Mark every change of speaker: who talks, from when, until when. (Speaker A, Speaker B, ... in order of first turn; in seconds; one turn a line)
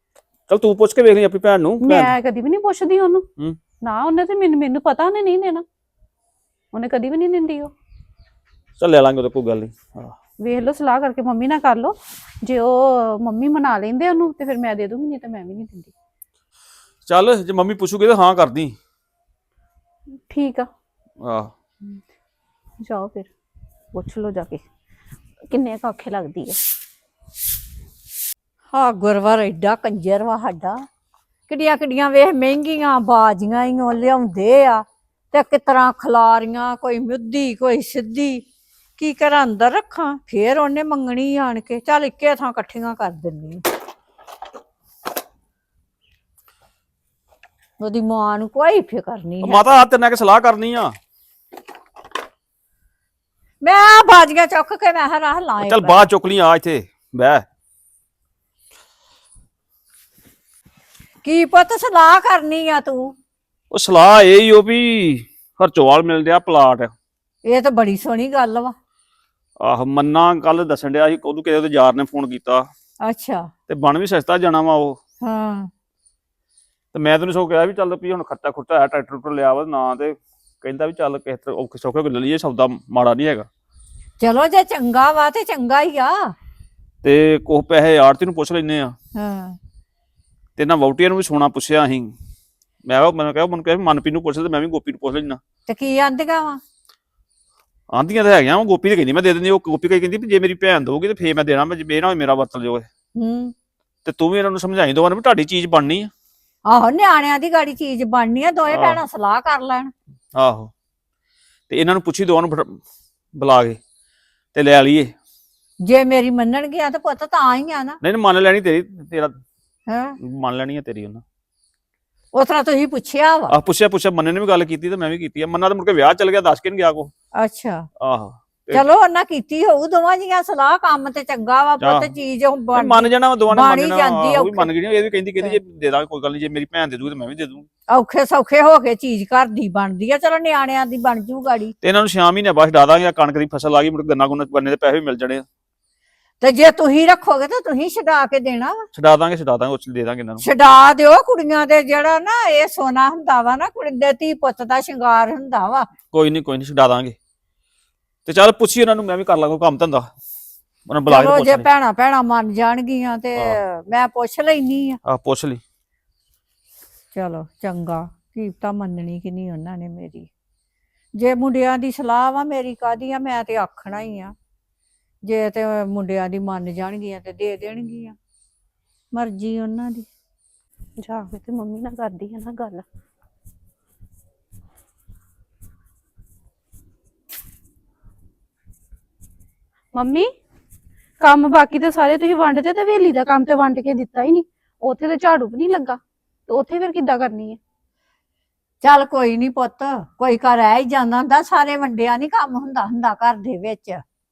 Speaker A: 0.5-2.2
Speaker B: 1.8-3.3
Speaker B: 3.8-5.6
Speaker B: 6.7-7.7
Speaker A: 8.8-10.2
Speaker B: 10.4-15.9
Speaker A: 17.1-18.8
Speaker B: 20.3-20.7
Speaker A: 21.2-21.5
Speaker B: 22.8-23.3
Speaker B: 23.9-24.6
Speaker B: 25.5-26.6
Speaker C: 28.7-30.8
Speaker C: 31.5-38.4
Speaker C: 39.0-43.6
Speaker C: 47.8-49.6
Speaker A: 49.4-50.9
Speaker C: 53.6-56.1
Speaker A: 55.6-57.5
Speaker C: 61.2-63.1
Speaker A: 63.7-66.9
Speaker C: 67.5-68.7
Speaker A: 69.6-72.7
Speaker C: 73.0-73.5
Speaker A: 73.7-75.0
Speaker C: 75.2-75.7
Speaker A: 76.9-83.5
Speaker C: 84.2-86.3
Speaker A: 87.0-88.9
Speaker C: 89.2-89.6
Speaker A: 90.6-92.1
Speaker A: 92.9-95.4
Speaker C: 95.7-96.6
Speaker A: 97.9-102.9
Speaker C: 103.2-103.5
Speaker A: 104.0-106.1
Speaker C: 106.7-109.9
Speaker A: 108.7-109.0
Speaker A: 110.4-110.7
Speaker A: 111.7-112.8
Speaker A: 113.3-113.8
Speaker A: 114.5-115.1
Speaker C: 115.9-118.0
Speaker A: 118.0-119.4
Speaker C: 119.9-120.2
Speaker A: 120.2-121.2
Speaker C: 122.3-123.5
Speaker A: 123.5-127.1
Speaker C: 127.4-127.9
Speaker A: 128.0-128.9
Speaker C: 128.7-134.7
Speaker A: 131.8-132.1
Speaker A: 132.7-137.7
Speaker C: 137.9-141.8
Speaker A: 141.8-145.4
Speaker C: 146.4-148.9
Speaker A: 148.9-150.5
Speaker C: 150.4-155.9
Speaker A: 156.1-157.2
Speaker A: 158.2-160.1
Speaker A: 160.9-161.7
Speaker C: 161.1-165.0
Speaker A: 165.1-165.6
Speaker C: 167.1-170.3
Speaker C: 171.2-174.3
Speaker C: 175.2-178.2
Speaker C: 179.1-180.1
Speaker B: 181.0-182.8
Speaker B: 189.9-190.3
Speaker B: 191.2-197.6
Speaker C: 198.8-204.0